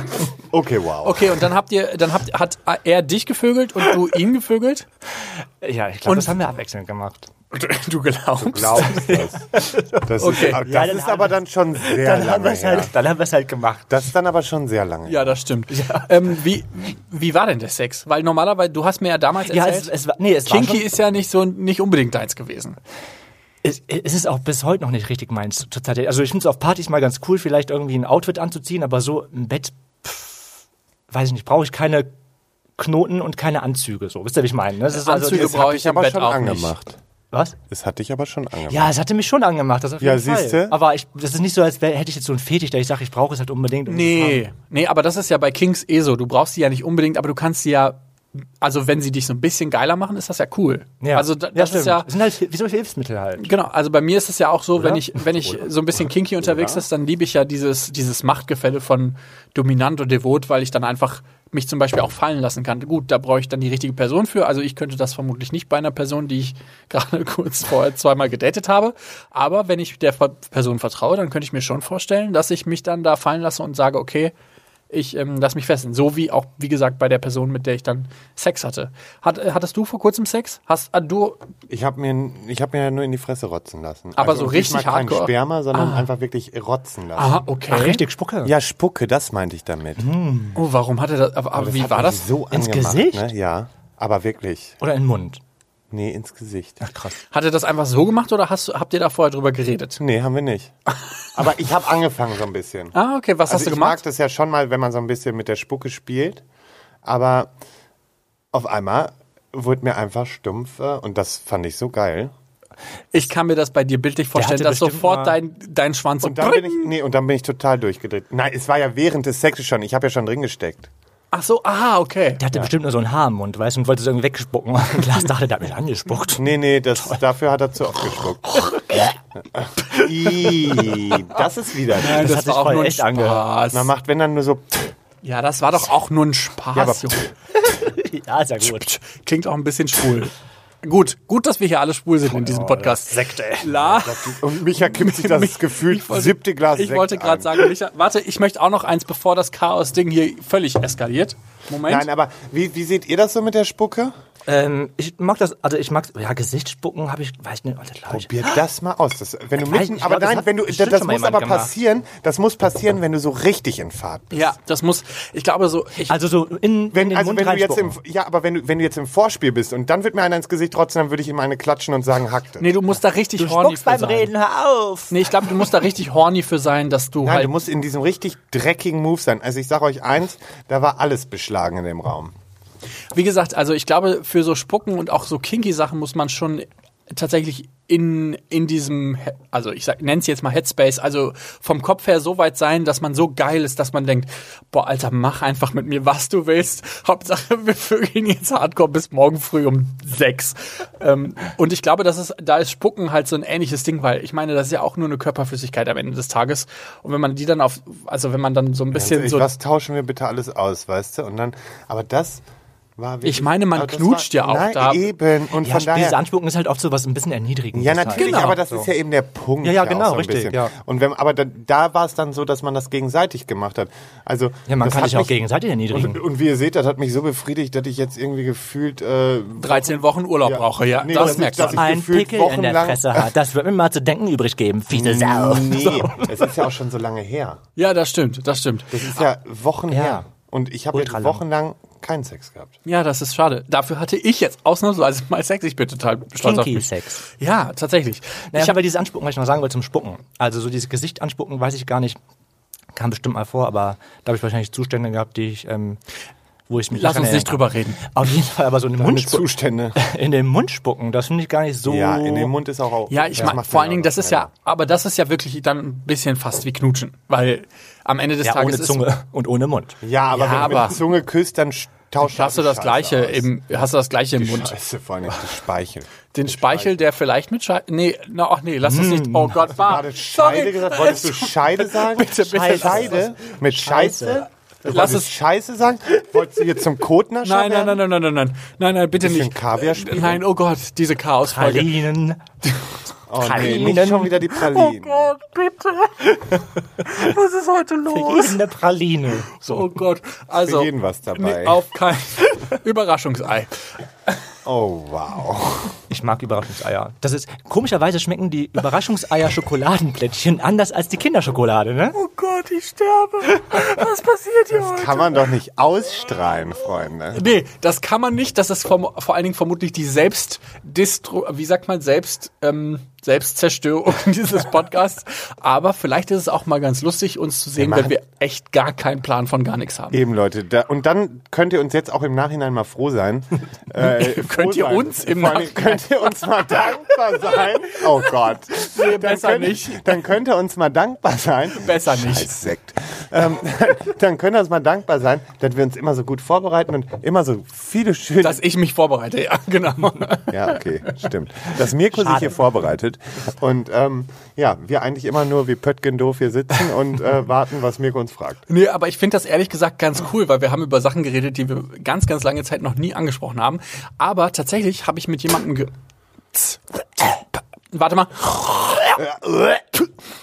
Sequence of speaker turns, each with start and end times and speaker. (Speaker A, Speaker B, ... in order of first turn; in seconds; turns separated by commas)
Speaker A: 0.5-1.4, Speaker B: 1.0-4.8, Speaker C: 5.2-7.3, Speaker B: 6.1-6.4, Speaker B: 7.5-9.3, Speaker A: 8.4-12.9, Speaker C: 9.5-13.9, Speaker B: 10.2-10.6, Speaker A: 13.9-15.4, Speaker B: 15.1-19.9, Speaker C: 15.7-16.3, Speaker C: 19.5-20.9, Speaker B: 20.4-22.8, Speaker C: 23.6-30.5, Speaker C: 31.1-32.1, Speaker C: 32.8-35.6, Speaker B: 34.9-36.7, Speaker A: 35.2-37.0, Speaker C: 37.3-37.6, Speaker A: 37.7-38.9, Speaker C: 38.7-44.4, Speaker A: 40.0-40.8, Speaker B: 43.9-48.0, Speaker B: 48.6-52.1, Speaker C: 51.0-53.5, Speaker B: 53.4-74.3, Speaker C: 54.8-55.7, Speaker B: 74.9-81.4, Speaker A: 81.7-87.4, Speaker B: 84.2-86.1, Speaker B: 87.2-88.0, Speaker C: 87.7-88.5, Speaker A: 88.4-90.1, Speaker C: 90.0-90.6, Speaker B: 90.5-92.2, Speaker A: 91.5-94.8, Speaker C: 92.5-93.3, Speaker C: 94.8-95.4, Speaker A: 95.9-96.8, Speaker C: 96.8-97.2, Speaker B: 97.3-100.0, Speaker A: 100.0-100.7, Speaker A: 101.3-103.0, Speaker B: 102.9-104.0, Speaker A: 103.5-106.4, Speaker A: 107.0-107.5, Speaker A: 108.5-112.3, Speaker B: 113.1-116.9, Speaker C: 114.3-115.4, Speaker A: 116.2-120.9, Speaker B: 121.3-122.4, Speaker C: 122.4-126.5, Speaker A: 126.4-128.6, Speaker C: 128.6-129.1, Speaker A: 129.6-132.2, Speaker C: 130.2-131.2, Speaker C: 131.9-133.4, Speaker B: 131.9-133.9, Speaker A: 133.7-134.9, Speaker B: 135.2-137.3, Speaker A: 136.7-137.2, Speaker C: 137.6-138.9, Speaker B: 138.6-152.1, Speaker C: 142.2-143.8, Speaker A: 143.8-147.7, Speaker A: 151.9-154.1, Speaker C: 154.5-158.6, Speaker A: 158.1-164.5, Speaker C: 159.6-161.7, Speaker B: 164.3-166.1, Speaker C: 166.1-168.0, Speaker A: 166.9-172.8, Speaker B: 172.6-174.3, Speaker C: 173.4-175.7, Speaker B: 175.1-177.5, Speaker A: 177.2-182.3, Speaker B: 183.1-209.5, Speaker A: 208.9-212.4, Speaker A: 213.0-216.2, Speaker B: 213.2-215.0, Speaker C: 215.6-218.9, Speaker A: 217.7-225.3, Speaker B: 218.1-218.6, Speaker C: 219.6-220.7, Speaker C: 224.7-226.2, Speaker A: 225.9-233.3, Speaker B: 229.6-231.8, Speaker C: 231.1-236.5, Speaker A: 234.9-237.6, Speaker B: 237.8-239.2, Speaker A: 238.9-242.7, Speaker C: 239.9-240.2, Speaker C: 240.9-241.4, Speaker B: 242.8-248.8, Speaker C: 246.4-247.2, Speaker C: 248.5-252.2, Speaker C: 252.9-256.0, Speaker C: 256.7-262.5, Speaker B: 256.9-258.0, Speaker A: 259.0-260.0, Speaker A: 261.9-264.5, Speaker B: 263.1-269.1, Speaker C: 268.4-270.7, Speaker A: 270.0-273.5, Speaker B: 270.3-271.0, Speaker B: 272.2-274.7, Speaker A: 274.4-277.0, Speaker B: 276.3-283.1, Speaker C: 278.8-279.7, Speaker A: 279.8-288.0, Speaker C: 282.4-284.5, Speaker B: 284.8-285.3, Speaker B: 287.4-291.9, Speaker A: 289.2-290.4, Speaker C: 291.4-292.4, Speaker B: 292.6-292.9, Speaker A: 293.3-295.3, Speaker C: 293.4-294.5, Speaker B: 293.6-293.9, Speaker B: 294.5-298.6, Speaker C: 298.1-299.9, Speaker B: 299.5-303.7, Speaker A: 300.6-301.8, Speaker A: 304.6-306.0, Speaker C: 306.1-312.2, Speaker B: 312.1-315.4, Speaker A: 314.7-317.4, Speaker B: 317.3-330.2, Speaker A: 327.8-328.1, Speaker A: 330.1-348.6, Speaker B: 333.9-336.1, Speaker B: 338.7-340.1, Speaker B: 341.7-342.5, Speaker B: 348.4-350.8, Speaker A: 350.5-358.6, Speaker C: 352.1-352.6, Speaker B: 358.7-365.9, Speaker B: 366.5-369.2, Speaker A: 369.1-370.0